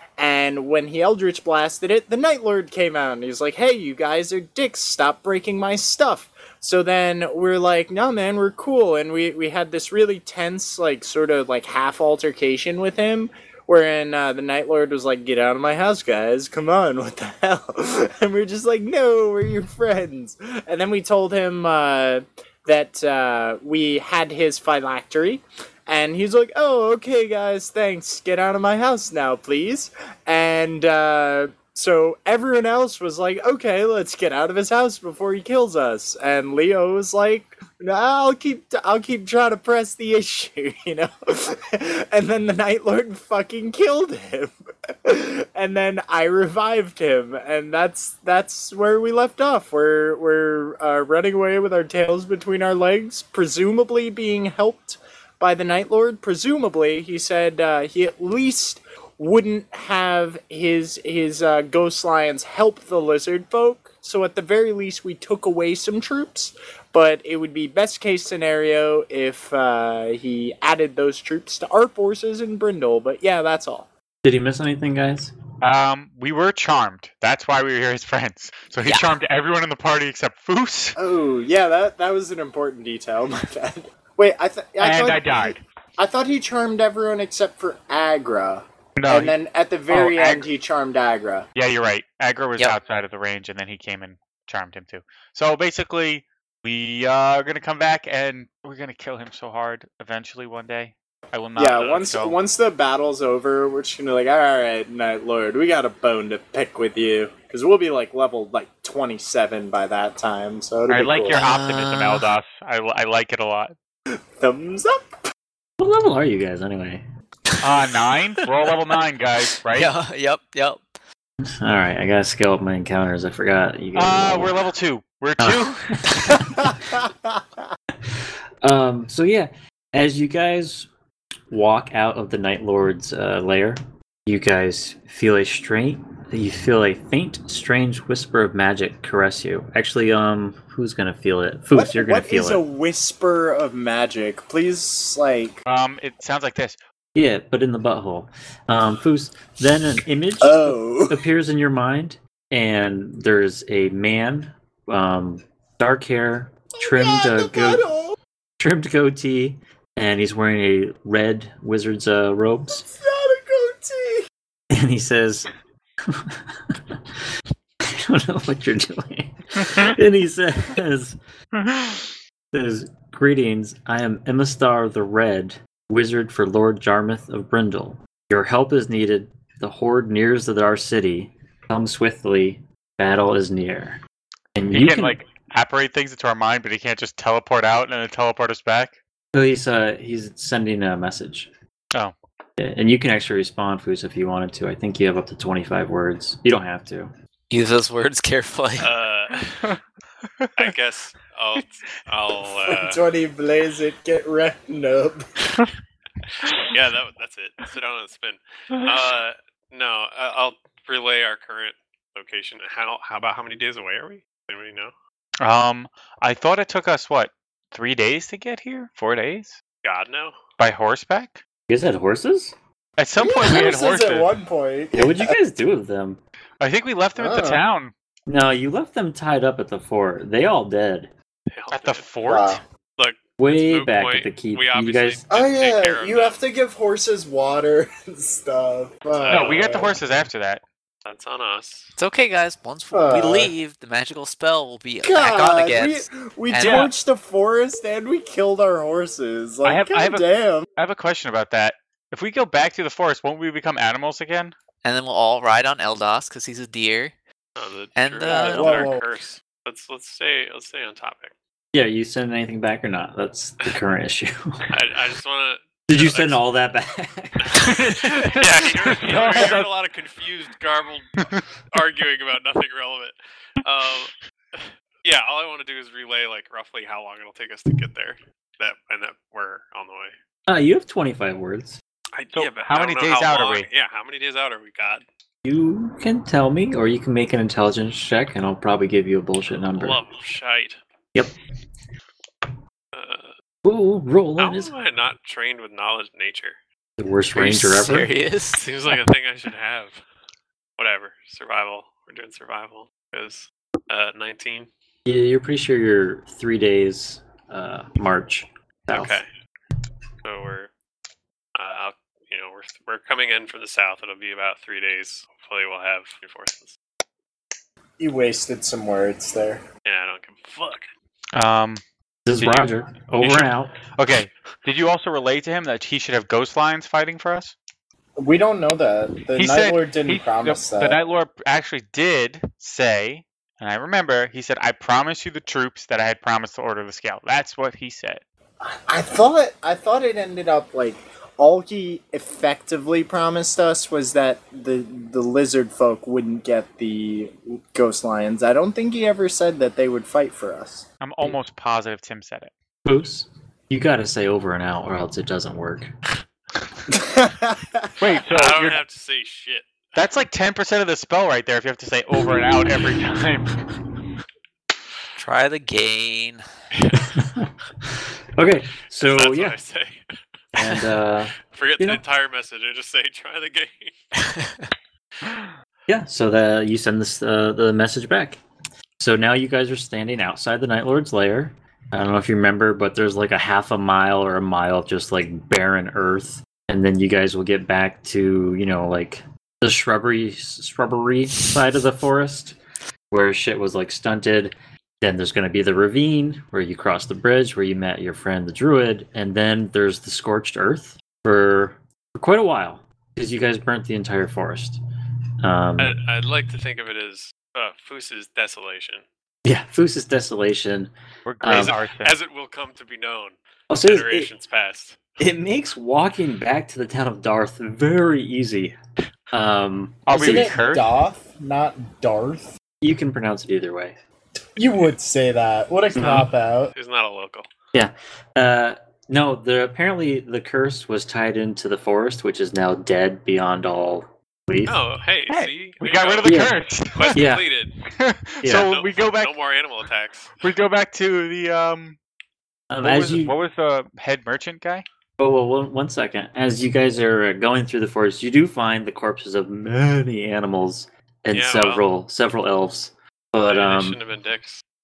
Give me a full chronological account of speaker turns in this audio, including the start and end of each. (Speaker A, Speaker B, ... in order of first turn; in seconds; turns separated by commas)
Speaker A: 0.2-73.9, Speaker B: 74.2-75.3, Speaker C: 75.6-81.0, Speaker A: 81.0-91.5, Speaker C: 84.8-85.6, Speaker C: 89.0-89.4, Speaker C: 89.9-90.5, Speaker C: 91.5-102.4, Speaker A: 101.6-111.4, Speaker C: 110.9-113.7, Speaker D: 111.3-112.3, Speaker A: 114.4-115.2, Speaker B: 115.8-117.0, Speaker C: 117.6-119.9, Speaker D: 118.4-119.0, Speaker D: 119.7-120.8, Speaker B: 121.4-124.7, Speaker C: 124.0-126.6, Speaker B: 125.4-126.4, Speaker B: 128.1-130.9, Speaker B: 131.5-142.6, Speaker A: 141.7-145.6, Speaker C: 145.7-146.8, Speaker B: 147.2-157.9, Speaker A: 150.4-151.2, Speaker A: 156.8-158.2, Speaker B: 158.6-162.9, Speaker A: 162.7-164.2, Speaker B: 164.7-165.5, Speaker B: 166.1-167.0, Speaker B: 167.8-171.2, Speaker C: 171.6-172.1, Speaker B: 172.5-184.0, Speaker B: 184.6-185.2, Speaker C: 184.7-189.0, Speaker B: 189.3-191.5, Speaker B: 192.6-197.1, Speaker D: 197.5-198.9, Speaker E: 198.8-199.8, Speaker C: 200.4-200.7, Speaker E: 200.6-203.0, Speaker A: 202.7-205.2, Speaker E: 206.4-214.9, Speaker C: 215.4-219.6, Speaker E: 219.8-220.4, Speaker C: 220.6-221.4, Speaker B: 221.7-222.5, Speaker C: 223.0-224.3, Speaker A: 223.2-225.3, Speaker B: 224.9-226.2, Speaker C: 226.6-227.9, Speaker A: 227.2-227.6, Speaker B: 228.3-231.1, Speaker E: 231.5-232.1, Speaker C: 231.7-232.6, Speaker A: 232.3-232.6, Speaker E: 233.0-236.4, Speaker B: 233.4-235.2, Speaker A: 235.3-239.9, Speaker E: 239.2-239.9, Speaker C: 239.3-240.6, Speaker E: 241.1-241.9, Speaker D: 242.0-246.9, Speaker A: 242.9-243.5, Speaker A: 245.0-250.7, Speaker C: 246.6-246.9, Speaker C: 249.6-254.5, Speaker D: 254.8-257.1, Speaker E: 257.6-261.3, Speaker D: 258.0-258.9, Speaker A: 258.3-259.1, Speaker B: 261.7-264.7, Speaker E: 264.7-266.4, Speaker B: 265.9-267.5, Speaker E: 267.4-280.1, Speaker C: 267.6-269.7, Speaker C: 271.2-271.5, Speaker B: 280.5-281.8, Speaker E: 282.2-285.1, Speaker C: 282.3-283.7, Speaker B: 285.4-290.0, Speaker E: 289.6-290.8, Speaker E: 292.9-293.3, Speaker B: 293.6-294.7, Speaker E: 294.4-296.6, Speaker B: 297.0-298.1, Speaker D: 297.4-299.0, Speaker E: 298.5-300.0, Speaker E: 300.8-304.7, Speaker B: 305.1-309.2, Speaker E: 308.9-309.3, Speaker E: 310.2-310.7, Speaker E: 311.6-316.8, Speaker A: 318.0-319.6, Speaker E: 319.9-320.9, Speaker C: 321.4-321.8, Speaker B: 322.3-323.8, Speaker C: 322.4-327.5, Speaker A: 328.2-331.0, Speaker C: 329.3-338.2, Speaker A: 338.6-350.9, Speaker C: 351.0-352.5, Speaker B: 352.9-355.9, Speaker A: 356.9-358.0, Speaker C: 358.0-358.8, Speaker E: 358.3-359.9, Speaker C: 360.0-363.6, Speaker D: 365.2-366.4, Speaker E: 366.8-367.1, Speaker B: 366.9-369.6, Speaker E: 369.0-370.2, Speaker B: 370.5-372.0, Speaker E: 371.5-374.1, Speaker D: 374.2-374.7, Speaker B: 375.9-378.4, Speaker B: 379.0-392.6, Speaker B: 393.1-404.8, Speaker B: 405.4-405.9, Speaker E: 405.8-409.1, Speaker B: 409.4-410.9, Speaker C: 411.3-412.1, Speaker B: 411.4-411.8, Speaker E: 411.6-415.0, Speaker B: 413.7-414.3, Speaker B: 415.2-418.8, Speaker B: 419.3-420.6, Speaker C: 420.1-420.9, Speaker A: 420.1-422.6, Speaker B: 422.8-424.0, Speaker A: 424.6-426.7, Speaker B: 425.9-426.3, Speaker E: 426.7-427.5, Speaker B: 427.7-434.8, Speaker E: 434.7-437.8, Speaker C: 435.3-437.2, Speaker B: 436.2-436.6, Speaker B: 437.1-437.5, Speaker C: 437.9-439.4, Speaker B: 438.4-438.7, Speaker E: 438.7-440.4, Speaker C: 440.4-442.0, Speaker B: 442.7-443.4, Speaker C: 442.8-444.9, Speaker B: 445.2-454.0, Speaker E: 451.3-451.9, Speaker E: 453.5-454.6